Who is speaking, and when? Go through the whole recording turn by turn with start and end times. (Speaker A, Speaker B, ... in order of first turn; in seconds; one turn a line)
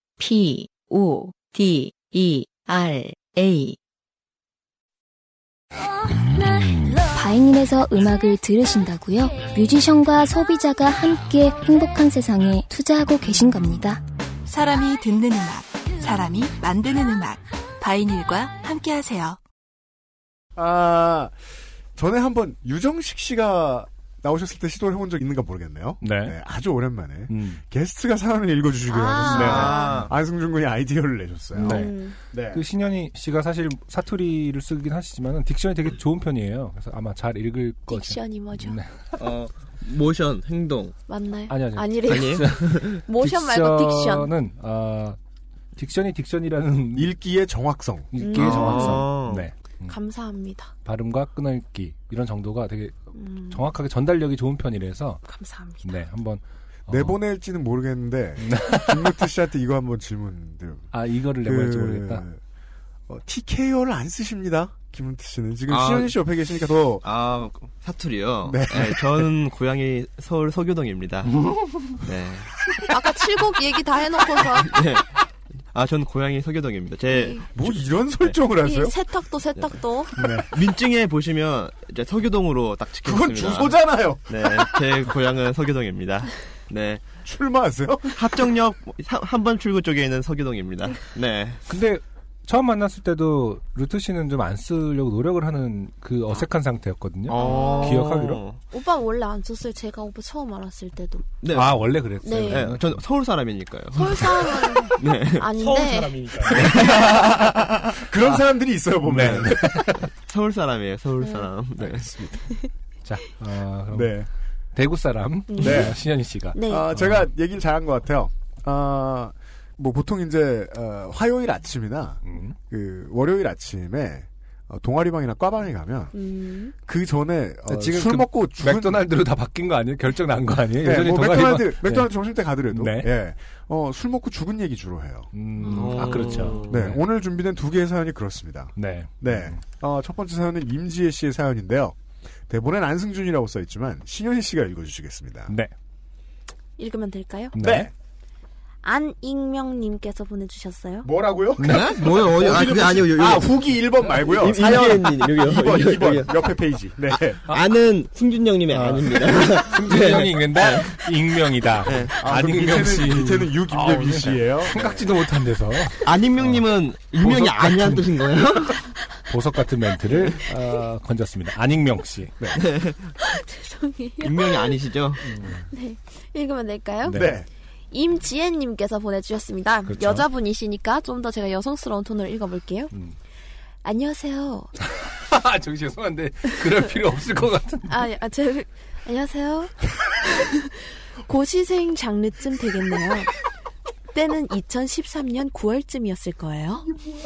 Speaker A: 0.2-3.8
Speaker B: 7.1-14.0
Speaker C: 14.5-19.4
Speaker D: 20.6-21.3
Speaker D: 21.9-32.6
Speaker E: 26.0-26.4
Speaker E: 27.3-27.6
Speaker F: 29.0-29.9
Speaker E: 29.3-29.8
Speaker G: 29.3-30.1
Speaker F: 31.5-32.1
Speaker E: 31.5-39.3
Speaker F: 37.9-38.8
Speaker G: 39.2-40.9
Speaker F: 41.1-44.3
Speaker E: 41.5-45.2
Speaker G: 42.1-43.0
Speaker E: 45.8-47.1
Speaker D: 46.9-48.1
Speaker E: 48.1-50.0
Speaker F: 48.2-49.1
Speaker G: 48.3-49.5
Speaker F: 49.9-50.7
Speaker E: 50.8-55.2
Speaker F: 53.1-53.7
Speaker F: 55.2-56.0
Speaker E: 55.8-57.2
Speaker D: 56.9-62.4
Speaker E: 58.4-59.1
Speaker E: 60.9-62.2
Speaker D: 63.1-67.0
Speaker G: 65.7-66.2
Speaker G: 67.0-72.6
Speaker D: 68.4-69.2
Speaker F: 72.9-74.7
Speaker G: 74.6-75.2
Speaker G: 75.7-77.7
Speaker F: 77.1-77.5
Speaker D: 77.5-79.0
Speaker F: 78.6-80.2
Speaker E: 80.2-80.5
Speaker G: 80.5-87.0
Speaker D: 83.0-84.9
Speaker D: 87.2-88.4
Speaker G: 88.1-91.6
Speaker E: 91.7-98.4
Speaker G: 97.3-98.6
Speaker F: 97.3-98.0
Speaker F: 98.7-101.3
Speaker G: 101.4-105.5
Speaker E: 101.5-103.0
Speaker F: 102.2-102.7
Speaker F: 103.9-106.2
Speaker E: 105.6-107.3
Speaker G: 106.5-108.0
Speaker D: 107.9-109.8
Speaker E: 109.0-110.1
Speaker G: 109.1-109.5
Speaker G: 110.3-112.1
Speaker F: 111.2-111.5
Speaker D: 111.8-112.5
Speaker E: 113.0-114.2
Speaker D: 113.9-114.3
Speaker E: 114.7-117.3
Speaker F: 115.5-116.0
Speaker D: 115.6-116.0
Speaker F: 116.5-116.9
Speaker D: 116.7-126.2
Speaker E: 122.2-122.6
Speaker F: 126.1-126.7
Speaker D: 126.8-129.1
Speaker E: 127.7-133.1
Speaker D: 130.8-135.3
Speaker E: 135.3-137.0
Speaker F: 135.6-136.6
Speaker G: 135.7-136.7
Speaker D: 136.7-141.9
Speaker E: 138.7-139.6
Speaker D: 142.5-145.5
Speaker E: 145.5-145.7
Speaker F: 146.8-147.6
Speaker E: 147.5-147.9
Speaker D: 147.6-147.9
Speaker F: 148.8-151.1
Speaker D: 151.0-157.4
Speaker E: 151.6-152.2
Speaker G: 151.6-156.4
Speaker G: 157.4-161.1
Speaker E: 158.7-166.6
Speaker G: 161.8-162.3
Speaker D: 162.2-165.1
Speaker G: 166.0-168.9
Speaker E: 167.1-168.2
Speaker E: 169.2-172.4
Speaker G: 172.5-173.1
Speaker F: 173.2-174.8
Speaker G: 174.2-175.2
Speaker E: 175.2-175.6
Speaker F: 175.3-177.3
Speaker E: 177.0-177.4
Speaker D: 177.1-177.5
Speaker F: 177.9-182.9
Speaker E: 179.9-180.3
Speaker F: 183.8-184.7
Speaker E: 185.1-188.0
Speaker F: 187.9-193.3
Speaker F: 194.1-196.9